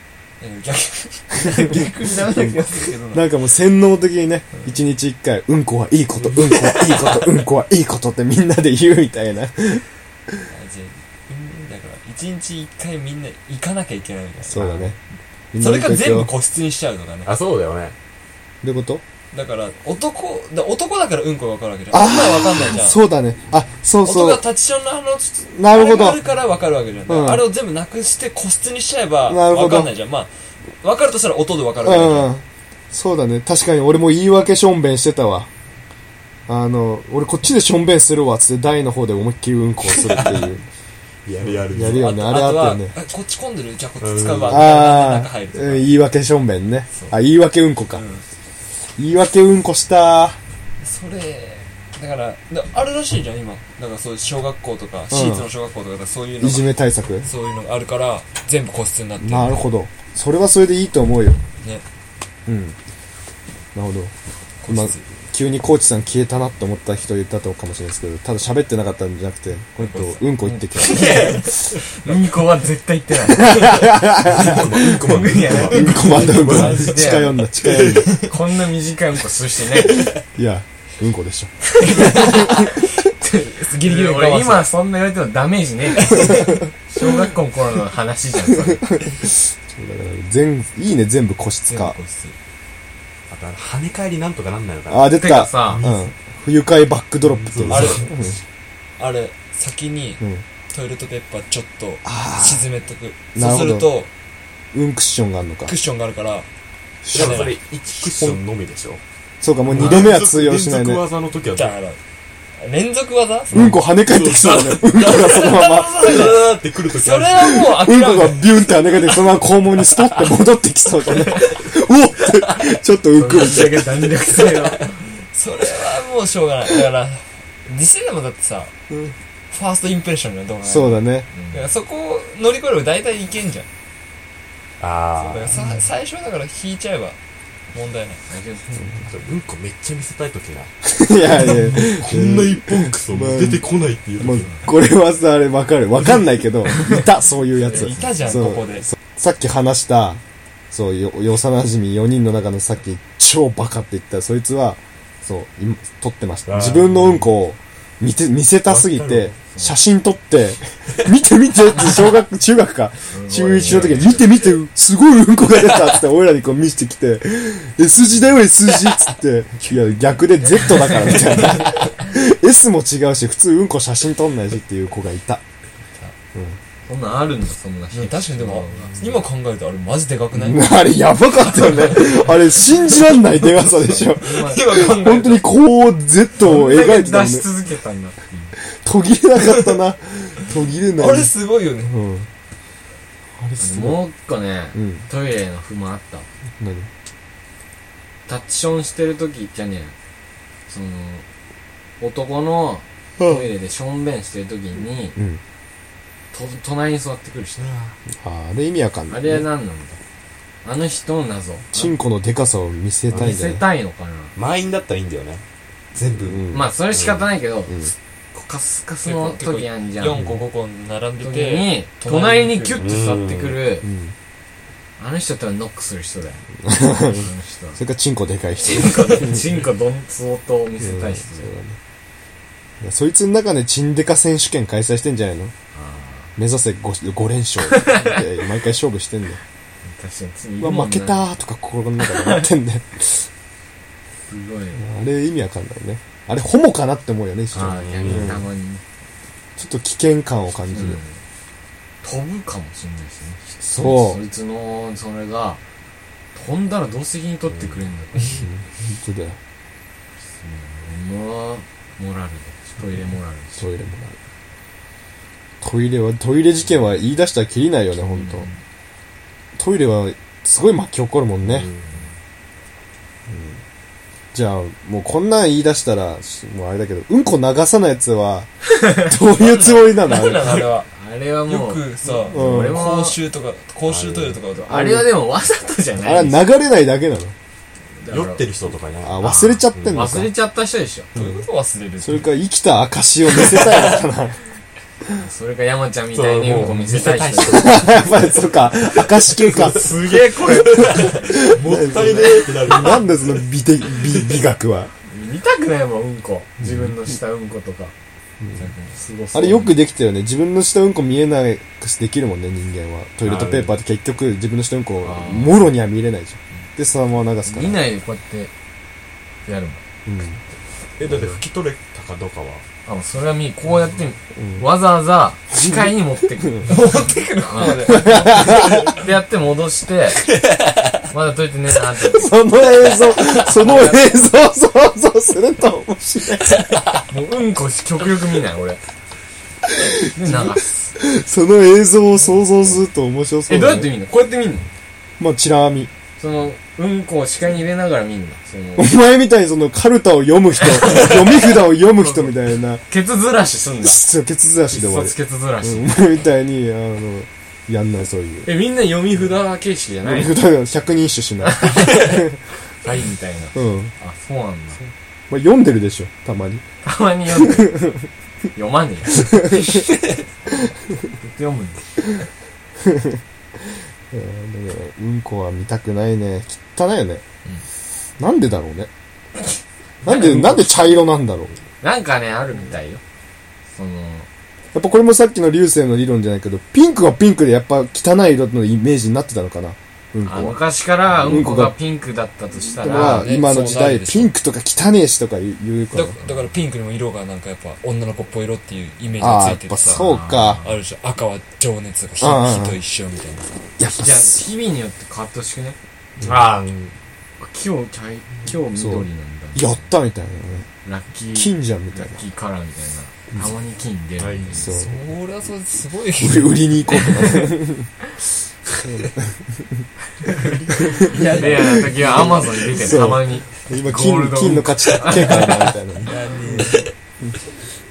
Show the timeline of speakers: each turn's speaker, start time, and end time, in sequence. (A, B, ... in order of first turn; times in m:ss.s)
0:00.4-0:03.3 A
0:01.4-0:10.4 B
0:06.4-0:07.4 A
0:10.5-0:15.0 A
0:14.5-0:15.0 B
0:15.5-0:16.3 B
0:15.6-0:17.3 A
0:17.2-0:18.0 C
0:18.6-0:19.0 B
0:19.3-0:23.0 A
0:21.9-0:24.4 B
0:24.0-0:32.3 A
0:25.5-0:26.2 B
0:27.1-0:27.4 B
0:29.3-0:29.9 B
0:31.8-0:35.5 B
0:36.5-0:40.7 B
0:41.2-0:42.2 C
0:41.7-0:42.9 B
0:41.8-0:45.9 A
0:44.0-0:44.7 C
0:44.5-0:48.0 B
0:47.9-0:48.2 A
0:49.0-0:50.4 B
0:50.8-0:56.7 A
0:55.1-0:55.5 B
0:56.4-0:57.3 B
0:57.2-0:59.7 A
0:59.2-1:01.4 B
1:02.5-1:02.8 B
1:03.8-1:04.1 B
1:04.6-1:05.0 A
1:04.7-1:11.5 B
1:09.8-1:11.5 A
1:10.4-1:14.0 D
1:13.3-1:15.0 B
1:14.2-1:18.1 C
1:14.9-1:17.4 D
1:15.6-1:18.1 B
1:18.2-1:20.1 D
1:20.0-1:22.6 B
1:21.8-1:28.9 D
1:22.0-1:24.7 A
1:26.0-1:26.6 A
1:28.7-1:32.0 B
1:31.7-1:32.4 A
1:33.3-1:35.2 C
1:34.9-1:38.4 B
1:35.2-1:35.8 D
1:35.7-1:36.0 C
1:37.2-1:38.1 C
1:37.7-1:38.1 A
1:39.0-1:44.1 A
1:42.0-1:42.6 B
1:43.4-1:43.9 B
1:44.7-1:45.7 B
1:45.7-1:46.5 A
1:47.0-1:47.4 B
1:47.1-1:47.6 A
1:47.1-1:49.0 C
1:49.4-1:51.0 B
1:49.7-1:51.8 C
1:49.7-1:50.2 A
1:51.5-1:52.0 A
1:52.6-1:59.0 A
1:53.5-1:56.3 B
1:53.5-1:55.3 C
1:56.0-1:57.7 C
1:57.4-2:04.0 B
2:03.1-2:05.0 D
2:05.3-2:08.7 A
2:09.5-2:13.7 A
2:10.6-2:11.3 B
2:11.3-2:11.7 D
2:14.8-2:15.6 C
2:15.2-2:17.2 A
2:17.7-2:18.2 A
2:18.3-2:18.9 D
2:19.1-2:20.7 C
2:20.8-2:23.6 B
2:21.3-2:24.6 C
2:24.2-2:55.4 B
2:27.6-2:28.4 D
2:27.7-2:28.9 A
2:36.5-2:37.3 C
2:38.7-2:39.4 C
2:39.5-2:39.8 D
2:43.1-2:44.3 D
2:43.7-2:44.2 C
2:50.5-2:51.8 A
2:56.9-2:59.0 D
2:57.9-3:00.7 A
3:00.3-3:07.5 B
3:01.6-3:02.7 A
3:04.1-3:04.6 D
3:04.2-3:05.5 A
3:06.4-3:08.5 D
3:08.8-3:11.3 B
3:11.0-3:12.0 A
3:11.9-3:12.3 B
3:13.4-3:14.0 B
3:13.6-3:16.3 D
3:14.8-3:15.0 B
3:16.6-3:16.9 B
3:18.3-3:20.0 D
3:20.7-3:21.2 D
3:22.0-3:25.2 D
3:23.2-3:23.4 B
3:25.2-3:25.4 B
3:26.3-3:27.7 D
3:27.6-3:28.0 C
3:28.1-3:29.4 B
3:29.1-3:30.0 D
3:30.6-3:32.0 D
3:31.7-3:33.6 B
3:33.1-3:34.4 D
3:34.4-3:37.2 C
3:36.2-3:36.6 B
3:36.5-3:40.2 D
3:39.0-3:42.8 A
3:41.2-3:43.9 D
3:42.8-3:43.6 C
3:43.8-3:44.1 B
3:45.0-3:46.4 D
3:46.6-3:49.5 B
3:47.0-3:47.8 D
3:48.6-3:51.5 D
3:50.8-3:51.8 B
3:52.8-3:55.5 B
3:55.7-3:56.3 D
3:56.4-3:59.4 B
3:57.6-3:58.1 D
3:59.8-4:01.2 D
4:00.6-4:03.3 B
4:04.3-4:04.8 D
4:04.8-4:08.4 B
4:07.5-4:08.8 D
4:07.6-4:08.4 C
4:09.6-4:11.0 B
4:10.7-4:11.2 D
4:12.0-4:15.6 D
4:13.6-4:14.2 B
4:16.4-4:18.5 D
4:17.5-4:17.8 C
4:18.4-4:19.4 B
4:20.3-4:23.6 D
4:23.6-4:24.2 B
4:25.6-4:28.5 B
4:28.2-4:28.5 D
4:29.6-4:31.7 B
4:31.4-4:32.0 C
4:33.3-4:33.6 B
4:34.3-4:40.7 B
4:38.8-4:39.1 D
4:39.3-4:40.9 A
4:40.9-4:43.2 D
4:41.5-4:45.0 A
4:42.3-4:42.8 B
4:43.9-4:44.3 C
4:44.6-4:46.4 D
4:44.7-4:45.1 B
4:46.0-4:47.4 B
4:48.0-4:48.5 D
4:48.1-4:50.1 C
4:49.0-4:50.3 B
4:49.2-4:51.2 D
4:51.2-4:52.3 A
4:52.0-4:54.4 B
4:55.2-4:57.9 D
4:56.1-5:03.4 C
4:57.5-4:59.9 B
4:59.6-5:03.0 D
5:00.8-5:04.9 B
5:05.1-5:07.9 D
5:08.6-5:09.0 A
5:08.9-5:09.7 D
5:09.3-5:17.8 B
5:13.2-5:13.8 C
5:15.0-5:15.7 D
5:17.5-5:18.5 D
5:19.5-5:19.8 D
5:20.1-5:20.4 B
5:21.0-5:22.6 C
5:21.0-5:21.4 B
5:22.9-5:26.8 D
5:24.4-5:24.6 B
5:25.5-5:25.9 B
5:26.7-5:29.0 A
5:27.5-5:30.3 D
5:27.9-5:28.9 B
5:31.1-5:32.4 D
5:32.0-5:36.6 B
5:33.1-5:34.2 D
5:37.1-5:38.8 D
5:39.7-5:43.9 B
5:40.1-5:41.0 D
5:43.5-5:44.7 D
5:45.2-5:45.9 B
5:46.2-5:48.9 D
5:48.8-5:52.8 B
5:50.7-5:54.0 D
5:53.8-5:58.5 B
5:54.7-5:56.0 D
5:58.4-6:00.3 D
6:00.0-6:02.4 B
6:01.4-6:04.8 D
6:03.6-6:03.9 B
6:05.3-6:06.6 B
6:06.8-6:07.8 D
6:07.4-6:08.1 B
6:08.6-6:09.7 D
6:09.1-6:09.9 B
6:11.2-6:11.8 D
6:12.8-6:13.2 B
6:14.1-6:17.2 B
6:18.2-6:18.9 B
6:20.0-6:21.5 B
6:20.1-6:20.5 D
6:21.8-6:23.0 D
6:23.7-6:24.3 D
6:24.7-6:30.6 B
6:30.2-6:33.3 D
6:31.2-6:31.7 B
6:32.8-6:36.2 B
6:32.9-6:34.3 A
6:35.9-6:43.5 A
6:39.2-6:40.6 B
6:39.9-6:40.7 D
6:42.2-6:42.8 B
6:43.8-6:44.4 B
6:43.9-6:49.9 D
6:48.8-6:50.7 B
6:50.8-6:54.9 D
6:51.3-6:52.2 B
6:54.2-6:54.7 C
6:54.5-6:55.0 B
6:54.8-6:57.4 A
6:56.2-6:57.9 B
6:58.8-6:59.8 B
7:00.3-7:01.6 C
7:00.8-7:06.6 B
7:01.0-7:02.3 A
7:01.3-7:05.6 D
7:05.1-7:06.9 A